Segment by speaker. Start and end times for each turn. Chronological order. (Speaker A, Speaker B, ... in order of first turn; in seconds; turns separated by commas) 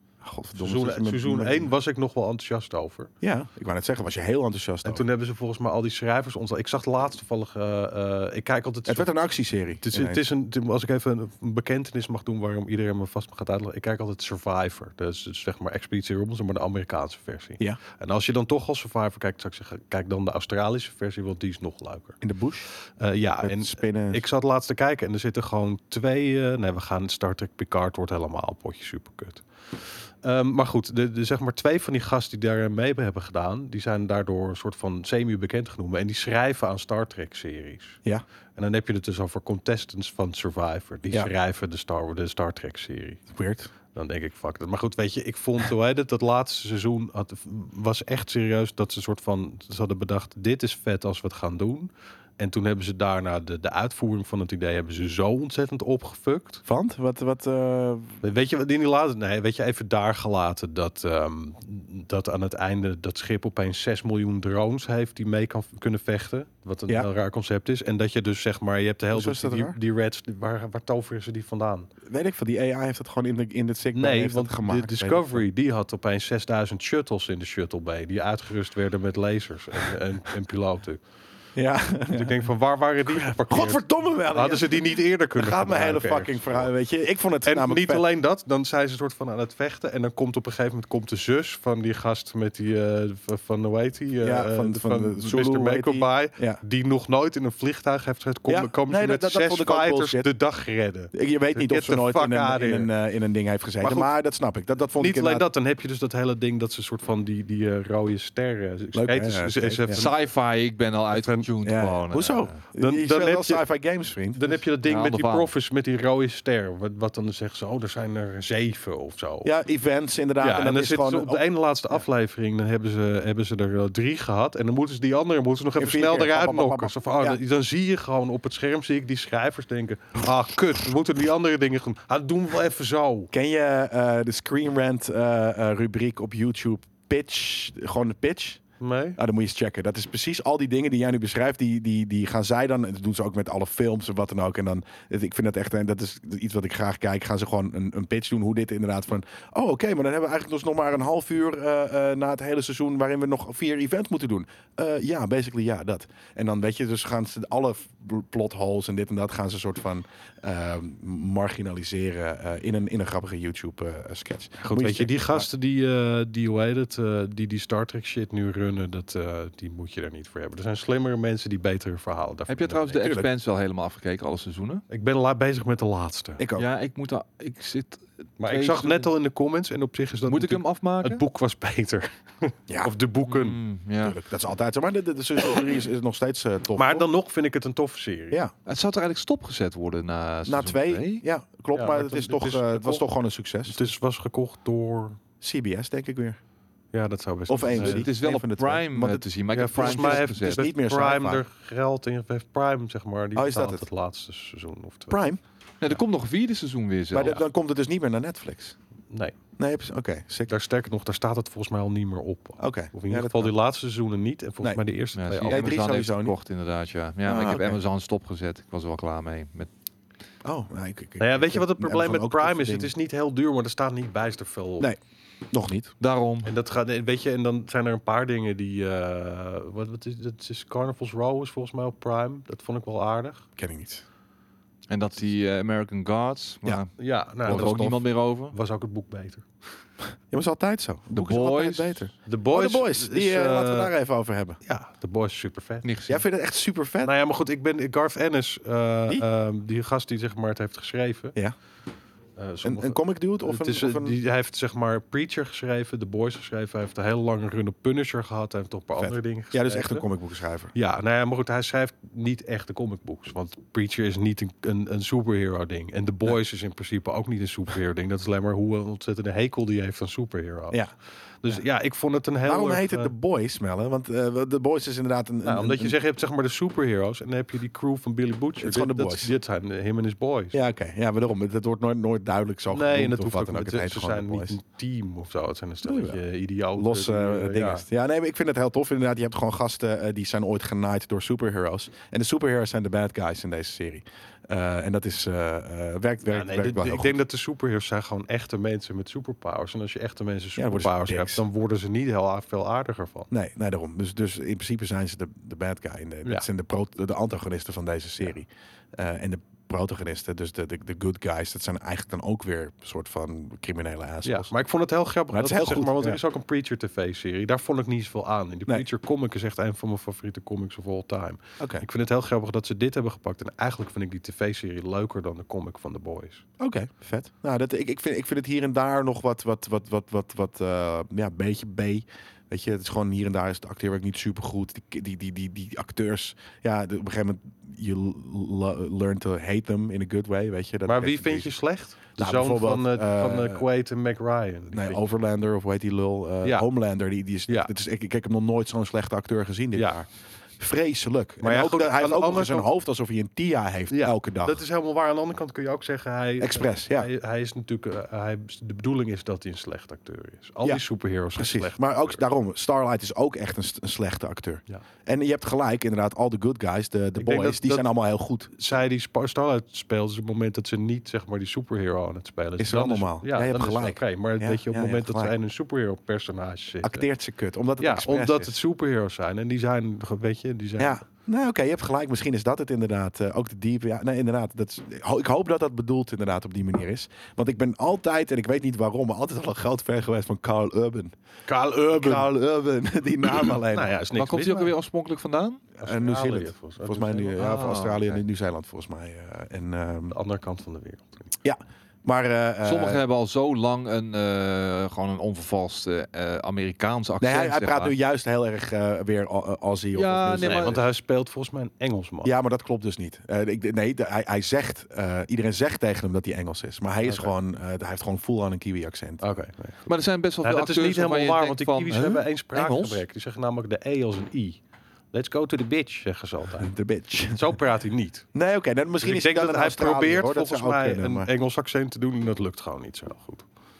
Speaker A: 0.2-1.7, Speaker B: 0.5-3.1, Speaker A: 3.2-5.0, Speaker B: 4.8-9.1, Speaker A: 8.9-10.2, Speaker B: 9.8-22.2, Speaker A: 22.2-22.7, Speaker B: 22.9-38.0, Speaker A: 23.4-24.2, Speaker B: 38.5-43.2, Speaker A: 43.3-43.7, Speaker B: 43.9-56.6, Speaker A: 56.6-58.2, Speaker B: 58.2-71.9, Speaker A: 69.1-69.8, Speaker A: 72.0-75.4, Speaker B: 73.9-81.0, Speaker A: 81.5-82.4, Speaker B: 82.1-86.7, Speaker A: 83.1-88.0, Speaker B: 87.4-102.9, Speaker A: 94.2-96.6, Speaker A: 98.5-100.3, Speaker A: 101.1-105.5, Speaker B: 103.8-104.1, Speaker B: 105.0-110.2, Speaker A: 108.9-110.0, Speaker C: 109.9-112.6, Speaker B: 111.1-111.5, Speaker A: 111.6-114.6, Speaker B: 112.8-113.6, Speaker B: 114.3-119.5, Speaker C: 114.8-115.5, Speaker A: 119.4-121.4, Speaker B: 120.4-133.3, Speaker A: 125.8-127.4, Speaker A: 133.3-138.6, Speaker B: 138.8-139.2, Speaker A: 139.2-165.5, Speaker B: 164.6-173.0, Speaker C: 172.5-174.8, Speaker A: 173.0-173.3, Speaker B: 174.9-176.4, Speaker A: 176.4-176.6, Speaker C: 176.6-179.1, Speaker B: 178.4-183.6, Speaker C: 180.3-181.2, Speaker A: 182.7-182.9, Speaker C: 183.3-184.1, Speaker A: 184.0-187.1, Speaker B: 186.8-188.4, Speaker C: 188.7-191.2, Speaker A: 190.4-193.8, Speaker B: 191.7-193.1, Speaker B: 193.7-195.2, Speaker A: 195.4-196.4, Speaker B: 196.9-198.1, Speaker A: 197.5-201.4, Speaker C: 197.7-200.7, Speaker B: 199.5-205.2, Speaker A: 203.3-203.8, Speaker A: 205.1-205.4, Speaker C: 205.8-207.4, Speaker A: 207.1-208.8, Speaker B: 209.1-209.3, Speaker A: 209.6-210.5, Speaker B: 210.5-215.7, Speaker A: 212.6-213.5, Speaker C: 215.1-219.7, Speaker A: 215.4-216.3, Speaker A: 217.2-217.8, Speaker A: 220.4-222.9, Speaker B: 221.2-224.9, Speaker A: 225.5-225.9, Speaker C: 226.0-226.5, Speaker B: 226.4-233.4, Speaker A: 233.6-234.0, Speaker C: 234.9-238.6, Speaker B: 237.0-239.5, Speaker A: 237.4-238.0, Speaker A: 240.3-244.6, Speaker C: 241.1-242.1, Speaker B: 242.2-243.9, Speaker B: 244.6-245.9, Speaker C: 245.8-246.2, Speaker A: 246.1-247.1, Speaker B: 247.0-251.3, Speaker B: 252.3-260.1, Speaker A: 252.6-254.2, Speaker A: 259.0-260.7, Speaker B: 260.7-270.8, Speaker B: 271.4-273.1, Speaker A: 272.4-275.9, Speaker B: 275.4-280.6, Speaker A: 278.6-279.3, Speaker A: 280.5-284.6, Speaker B: 282.7-287.8, Speaker A: 285.8-286.2, Speaker A: 286.7-297.2, Speaker B: 296.2-303.3, Speaker A: 300.6-301.4, Speaker A: 303.3-314.5, Speaker B: 314.2-326.4, Speaker A: 315.3-316.2, Speaker A: 321.6-321.8, Speaker A: 326.6-341.5, Speaker B: 340.9-345.0, Speaker A: 342.1-343.6, Speaker A: 344.7-354.6, Speaker B: 349.7-350.0, Speaker B: 351.4-352.7, Speaker B: 353.9-362.2, Speaker A: 356.4-357.1, Speaker A: 361.3-368.5, Speaker B: 367.2-367.9, Speaker B: 368.5-377.1, Speaker A: 372.6-375.3, Speaker A: 376.8-378.5, Speaker B: 377.8-381.0, Speaker A: 380.8-391.1, Speaker B: 391.5-392.3, Speaker A: 391.7-393.9, Speaker B: 393.2-394.7, Speaker C: 394.1-395.6, Speaker A: 395.8-400.1, Speaker B: 395.8-397.8, Speaker C: 397.4-398.1, Speaker B: 400.1-401.3, Speaker A: 401.4-403.0, Speaker C: 402.6-407.9, Speaker A: 407.2-410.8, Speaker C: 409.9-410.8, Speaker B: 410.4-412.3, Speaker A: 412.2-419.2, Speaker B: 417.0-417.3, Speaker B: 419.2-419.9, Speaker C: 419.9-423.0, Speaker B: 420.4-424.6, Speaker A: 421.9-422.2, Speaker B: 425.1-426.7, Speaker A: 426.6-427.6, Speaker B: 427.3-428.3, Speaker A: 428.3-431.3, Speaker B: 429.0-433.4